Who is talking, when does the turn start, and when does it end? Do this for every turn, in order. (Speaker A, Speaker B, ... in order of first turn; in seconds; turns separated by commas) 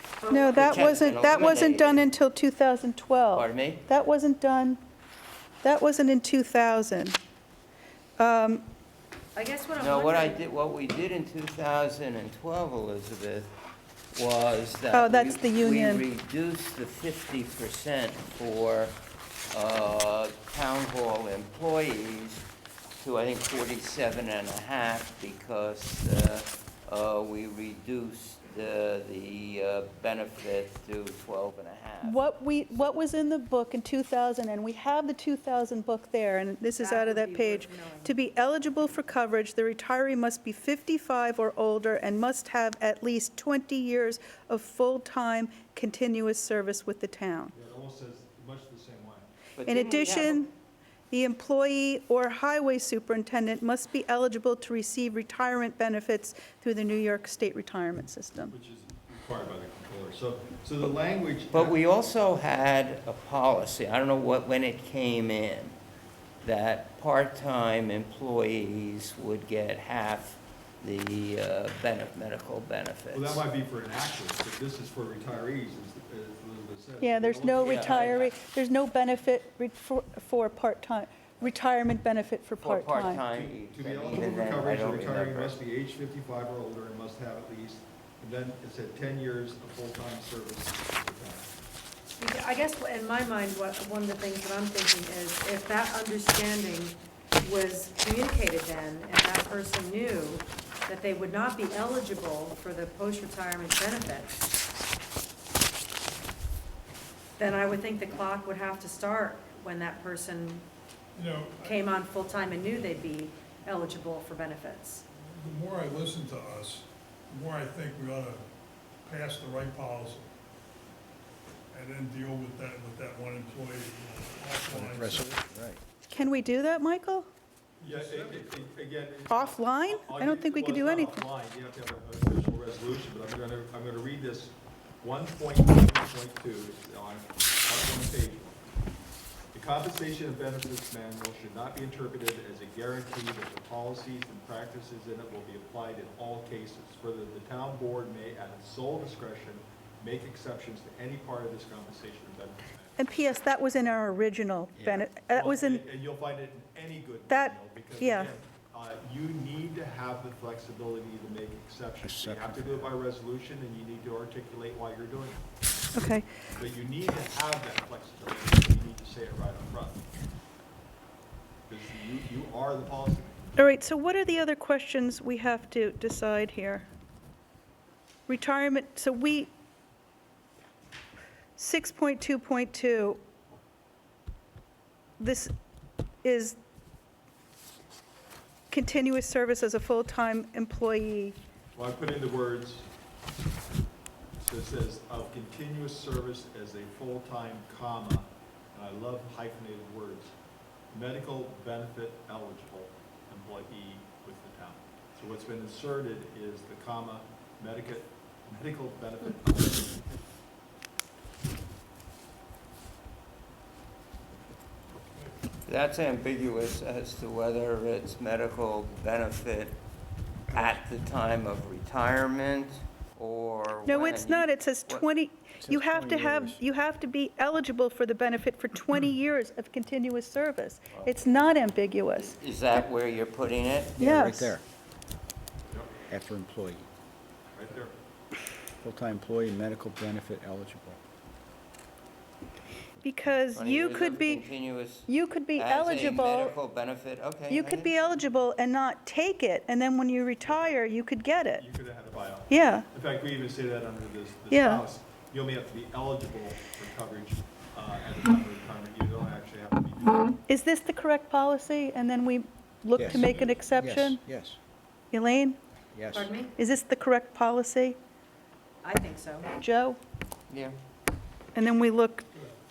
Speaker A: 0.2-1.5, Speaker B: 0.3-4.8, Speaker C: 0.5-2.1, Speaker C: 3.3-3.8, Speaker B: 5.6-7.2, Speaker B: 8.2-8.7, Speaker A: 9.3-10.4, Speaker C: 9.8-13.5, Speaker C: 14.1-18.9, Speaker B: 14.9-16.0, Speaker C: 19.5-22.4, Speaker C: 23.0-33.0, Speaker B: 32.0-47.5, Speaker A: 36.8-38.1, Speaker D: 47.5-49.3, Speaker C: 49.5-50.4, Speaker B: 49.6-50.5, Speaker B: 51.1-58.5, Speaker D: 58.5-61.8, Speaker C: 61.5-65.7, Speaker C: 66.4-73.4, Speaker D: 73.1-78.2, Speaker B: 77.0-83.2, Speaker C: 77.6-78.3, Speaker C: 82.6-85.6, Speaker D: 83.3-91.5, Speaker A: 92.2-104.5, Speaker A: 107.4-110.7, Speaker E: 111.1-111.8, Speaker A: 111.6-115.0, Speaker E: 115.2-118.4, Speaker E: 119.0-120.3, Speaker E: 121.7-125.4, Speaker F: 124.7-125.8, Speaker B: 126.1-127.3, Speaker E: 127.8-128.6, Speaker D: 127.8-138.6, Speaker B: 129.3-131.2, Speaker D: 139.5-153.0, Speaker B: 153.0-155.8, Speaker F: 154.7-155.1, Speaker D: 155.3-165.4, Speaker B: 157.3-158.3, Speaker F: 162.0-162.9, Speaker B: 165.9-166.3, Speaker D: 166.5-170.0, Speaker D: 171.7-173.5, Speaker B: 173.6-176.8, Speaker B: 178.3-179.5, Speaker B: 181.6-183.2, Speaker B: 185.2-185.5, Speaker B: 186.2-186.6, Speaker B: 188.7-191.4, Speaker D: 191.7-192.9, Speaker D: 194.4-200.3, Speaker D: 200.9-210.1, Speaker C: 215.7-219.8, Speaker C: 220.5-225.0, Speaker B: 223.8-232.3, Speaker F: 225.6-226.6, Speaker C: 230.9-231.2, Speaker C: 232.2-233.9, Speaker F: 234.0-234.6, Speaker B: 234.0-234.5, Speaker F: 236.1-236.9, Speaker D: 237.5-237.9, Speaker F: 238.8-241.0, Speaker B: 243.0-244.4, Speaker C: 243.5-248.2, Speaker B: 245.1-246.6, Speaker B: 247.5-251.6, Speaker D: 250.4-250.8, Speaker D: 251.5-260.4, Speaker B: 252.5-252.9, Speaker B: 254.5-254.8, Speaker B: 260.5-264.2, Speaker F: 263.0-264.6, Speaker E: 263.1-263.7, Speaker B: 265.1-265.6, Speaker F: 265.9-266.3, Speaker A: 266.1-266.5, Speaker B: 266.6-268.0, Speaker A: 268.8-269.5, Speaker B: 269.6-270.0, Speaker C: 270.5-270.8, Speaker B: 271.5-272.2